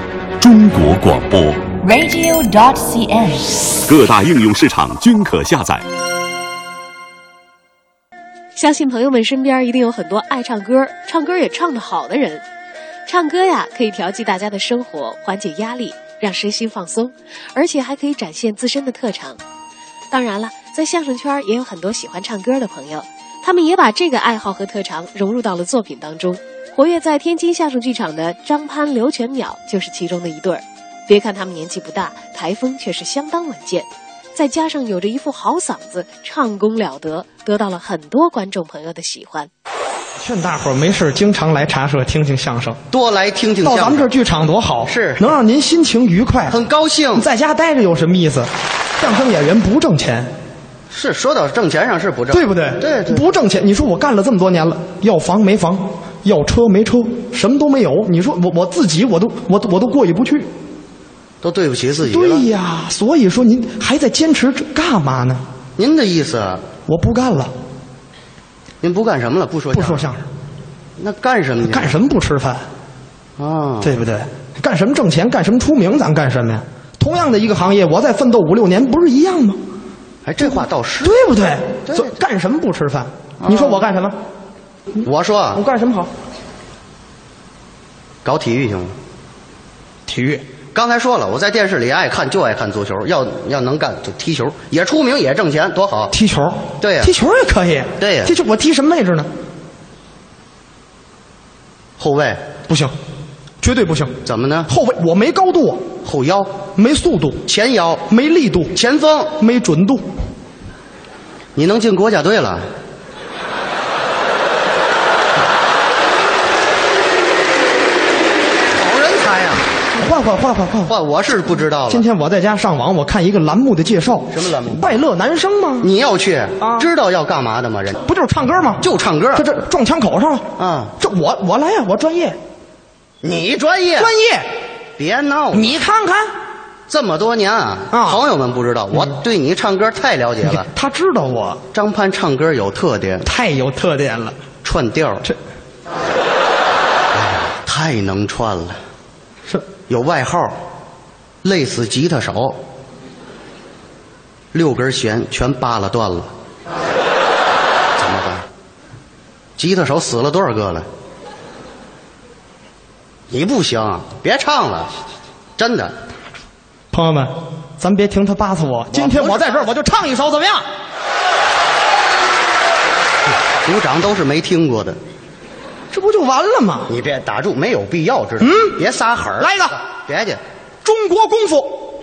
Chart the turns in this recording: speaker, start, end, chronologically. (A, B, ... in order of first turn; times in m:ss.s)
0:00.4-0:01.7 A
0:01.8-0:03.8 B
0:03.9-0:05.9 A
0:08.6-0:12.4 C
0:13.1-0:19.4 C
0:20.1-0:39.5 C
0:40.2-0:42.8 D
0:42.9-0:44.1 E
0:43.6-0:46.6 D
0:44.8-0:45.2 E
0:46.5-0:47.3 E
0:47.1-0:50.3 D
0:50.9-0:53.2 E
0:52.3-1:00.5 D
1:01.4-1:02.5 E
1:02.0-1:05.4 D
1:05.8-1:06.6 E
1:06.9-1:07.5 D
1:08.8-1:10.1 E
1:09.7-1:10.3 D
1:11.0-1:12.0 E
1:11.6-1:12.7 D
1:13.4-1:14.0 E
1:13.8-1:19.6 D
1:20.2-1:21.3 E
1:21.0-1:24.2 D
1:21.9-1:22.2 E
1:23.4-1:23.9 E
1:25.0-1:25.6 E
1:25.5-1:26.1 D
1:28.2-1:29.0 E
1:30.1-1:30.4 D
1:30.7-1:36.1 E
1:36.1-1:39.3 D
1:36.8-1:37.2 E
1:38.0-1:38.4 E
1:42.0-1:42.4 E
1:42.7-1:43.0 D
1:43.6-1:45.9 D
1:44.2-1:44.7 E
1:46.0-1:46.5 E
1:46.8-1:47.5 D
1:47.5-1:48.1 E
1:48.1-1:48.8 D
1:48.7-1:49.3 E
1:49.4-1:50.1 D
1:51.6-1:52.6 E
1:58.7-1:59.7 E
1:59.9-2:01.0 D
2:00.9-2:02.1 E
2:01.9-2:05.9 D
2:04.3-2:05.0 E
2:05.8-2:08.0 E
2:06.6-2:06.9 D
2:08.0-2:12.4 D
2:08.8-2:09.5 E
2:10.6-2:11.0 E
2:13.2-2:14.1 E
2:14.0-2:14.5 D
2:15.0-2:15.8 E
2:15.5-2:16.3 D
2:16.9-2:20.7 E
2:17.9-2:18.2 D
2:20.4-2:21.6 D
2:21.7-2:23.3 E
2:23.2-2:24.4 D
2:24.6-2:25.3 E
2:27.1-2:28.8 E
2:29.9-2:30.6 E
2:31.4-2:32.6 E
2:34.5-2:36.3 E
2:38.0-2:38.5 E
2:39.6-2:40.9 E
2:43.3-2:44.9 E
2:45.6-2:46.0 E
2:46.9-2:50.7 D
2:48.9-2:49.7 E
2:53.6-2:55.0 E
2:55.9-2:56.9 D
2:56.9-3:00.4 E
2:58.4-2:58.8 D
2:59.4-2:59.8 D
3:00.8-3:01.9 D